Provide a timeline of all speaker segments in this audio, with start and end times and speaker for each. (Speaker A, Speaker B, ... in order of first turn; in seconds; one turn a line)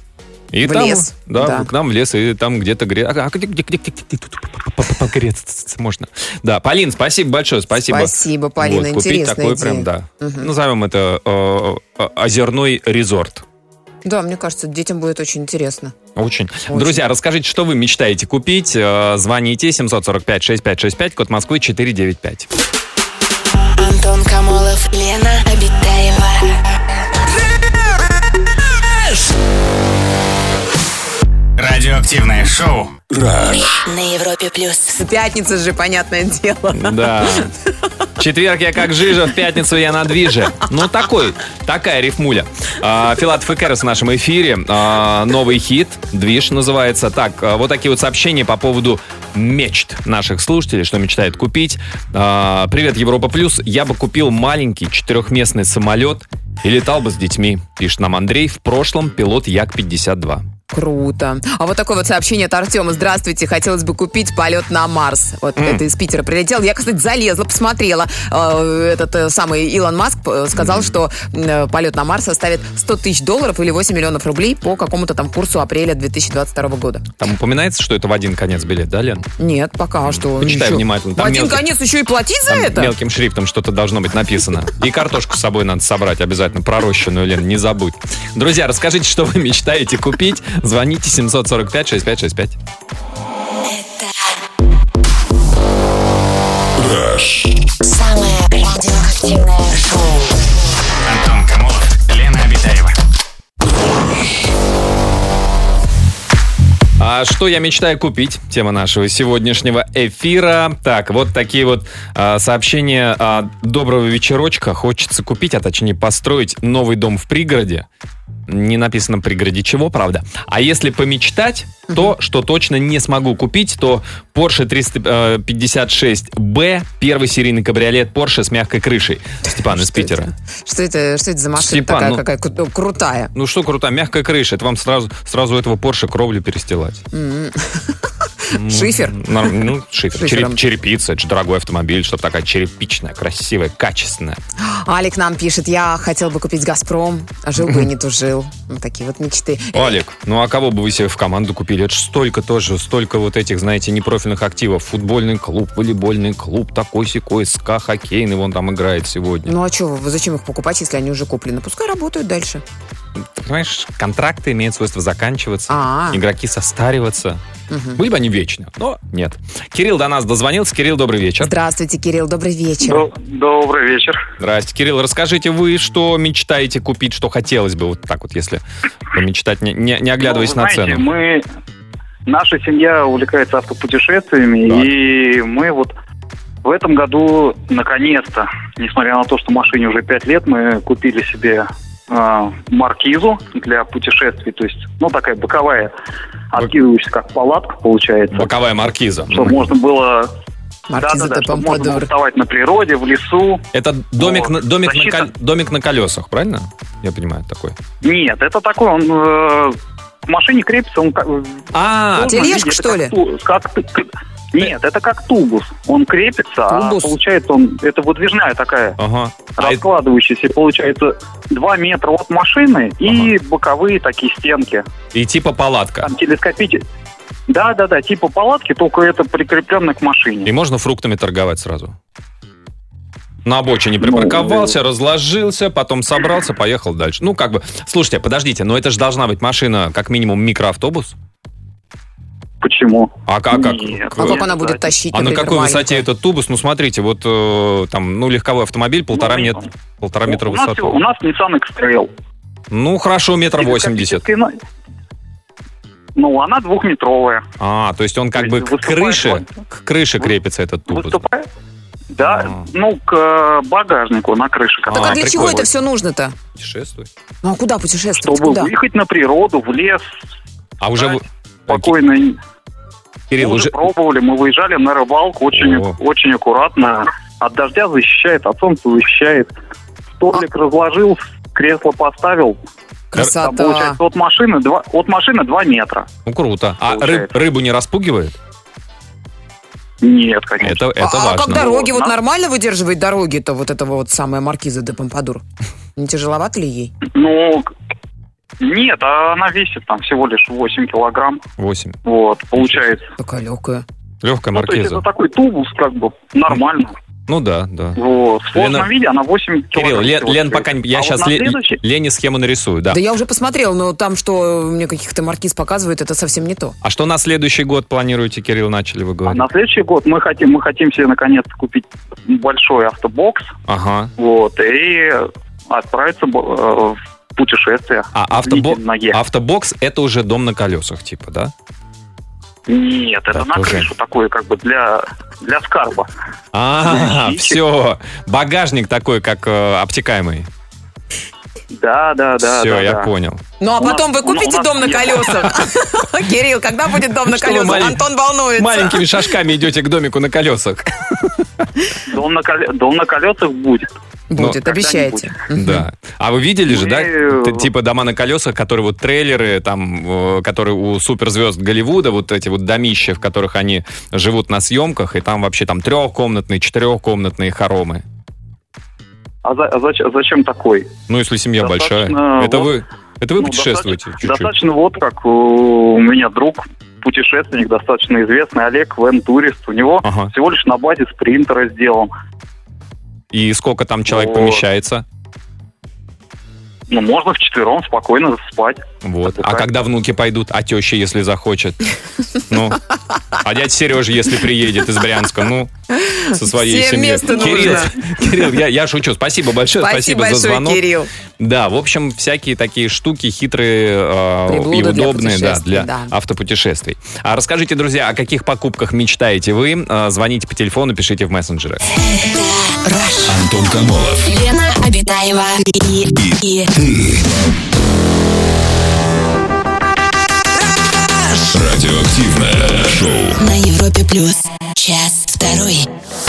Speaker A: 0.5-13.4
Speaker B: 0.6-1.7
Speaker B: 7.8-10.5
Speaker B: 14.0-15.9
Speaker A: 16.1-22.5
Speaker B: 16.7-17.0
Speaker C: 23.7-26.6
Speaker D: 31.6-33.0
Speaker E: 33.1-33.8
Speaker C: 33.9-34.9
Speaker B: 34.9-37.5
Speaker A: 36.7-37.5
Speaker A: 38.2-60.5
Speaker B: 60.7-77.1
Speaker A: 65.5-65.8
Speaker A: 70.5-70.9
Speaker A: 77.2-79.3
Speaker B: 79.4-82.9
Speaker A: 80.0-81.7
Speaker A: 82.5-92.6
Speaker C: 93.7-94.3
Speaker E: 96.8-97.5
Speaker C: 97.8-100.0
Speaker D: 101.0-102.9
Speaker A: 107.0-117.9
Speaker A: 118.5-130.3
Speaker B: 129.7-133.3
Speaker A: 131.5-132.2
Speaker A: 133.3-137.0
Speaker B: 137.1-139.5
Speaker A: 138.5-144.4
Speaker B: 140.2-140.6
Speaker B: 144.6-149.9
Speaker A: 147.6-147.9
Speaker A: 149.7-159.5
Speaker B: 159.4-162.6
Speaker A: 163.2-167.4
Speaker B: 165.7-166.2
Speaker B: 167.7-168.0
Speaker A: 167.9-171.5
Speaker B: 171.4-173.1
Speaker F: 172.8-174.2
Speaker A: 174.4-181.1
Speaker F: 180.2-181.4
Speaker F: 182.2-185.9
Speaker F: 186.6-195.9
Speaker F: 196.5-198.5
Speaker A: 198.3-199.7
Speaker F: 199.3-200.3
Speaker B: 200.9-202.1
Speaker F: 201.0-203.6
Speaker A: 203.7-207.8
Speaker F: 204.2-205.3
Speaker F: 208.0-219.0
Speaker A: 211.7-212.5
Speaker B: 212.2-213.1
Speaker B: 216.7-217.2
Speaker A: 219.0-219.8
Speaker F: 219.6-224.8
Speaker A: 223.1-223.3
Speaker A: 225.1-226.1
Speaker F: 226.0-226.8
Speaker F: 227.5-230.5
Speaker A: 230.4-231.9
Speaker A: 233.4-241.2
Speaker F: 234.0-234.7
Speaker F: 242.6-244.9
Speaker A: 243.3-244.4
Speaker B: 244.2-246.0
Speaker A: 245.1-250.9
Speaker F: 249.1-249.7
Speaker F: 250.3-252.1
Speaker A: 252.7-254.2
Speaker F: 253.6-254.5
Speaker F: 256.1-257.4
Speaker A: 257.6-261.2
Speaker F: 258.4-259.5
Speaker F: 260.9-261.5
Speaker F: 262.1-265.4
Speaker A: 262.2-262.7
Speaker A: 264.9-265.7
Speaker B: 264.9-266.3
Speaker A: 266.5-267.1
Speaker B: 267.4-268.7
Speaker F: 268.2-270.0
Speaker A: 270.8-271.9
Speaker F: 271.0-272.4
Speaker A: 273.3-273.8
Speaker F: 273.4-279.5
Speaker A: 275.5-276.0
Speaker F: 280.2-282.6
Speaker B: 283.1-284.0
Speaker F: 283.2-286.1
Speaker A: 286.2-288.3
Speaker F: 286.9-287.3
Speaker F: 290.0-290.9
Speaker A: 290.6-291.8
Speaker B: 291.0-295.4
Speaker F: 291.5-292.1
Speaker B: 295.9-296.9
Speaker F: 297.1-297.7
Speaker F: 298.6-301.4
Speaker A: 301.6-302.0
Speaker F: 302.0-303.1
Speaker B: 303.2-303.8
Speaker A: 304.2-305.0
Speaker F: 304.5-306.9
Speaker A: 307.3-308.0
Speaker F: 308.0-311.8
Speaker A: 308.5-308.9
Speaker A: 309.7-313.0
Speaker B: 312.9-316.8
Speaker A: 316.8-319.4
Speaker F: 319.3-323.5
Speaker A: 323.7-324.1
Speaker F: 324.2-329.2
Speaker A: 328.1-331.5
Speaker F: 332.7-336.1
Speaker A: 333.3-333.9
Speaker A: 336.5-340.5
Speaker F: 336.9-337.6
Speaker F: 341.7-343.1
Speaker A: 342.4-343.4
Speaker B: 343.6-349.1
Speaker F: 343.8-345.6
Speaker A: 347.2-348.0
Speaker A: 348.6-351.6
Speaker F: 352.1-353.9
Speaker B: 354.3-355.9
Speaker F: 354.5-355.4
Speaker A: 355.5-368.0
Speaker F: 356.7-357.7
Speaker F: 369.4-370.9
Speaker A: 371.1-374.5
Speaker F: 371.6-372.7
Speaker F: 373.4-382.1
Speaker A: 380.0-380.3
Speaker A: 383.3-385.0
Speaker F: 384.1-384.6
Speaker F: 386.9-389.7
Speaker A: 389.0-391.9
Speaker A: 392.5-392.8
Speaker A: 393.3-395.7
Speaker B: 395.9-398.1
Speaker A: 396.2-400.8
Speaker B: 399.8-401.1
Speaker A: 401.4-411.8
Speaker B: 404.5-406.1
Speaker C: 412.1-413.4
Speaker E: 413.2-414.4
Speaker C: 414.2-416.7
Speaker E: 416.2-417.2
Speaker E: 421.4-423.4
Speaker C: 423.4-425.9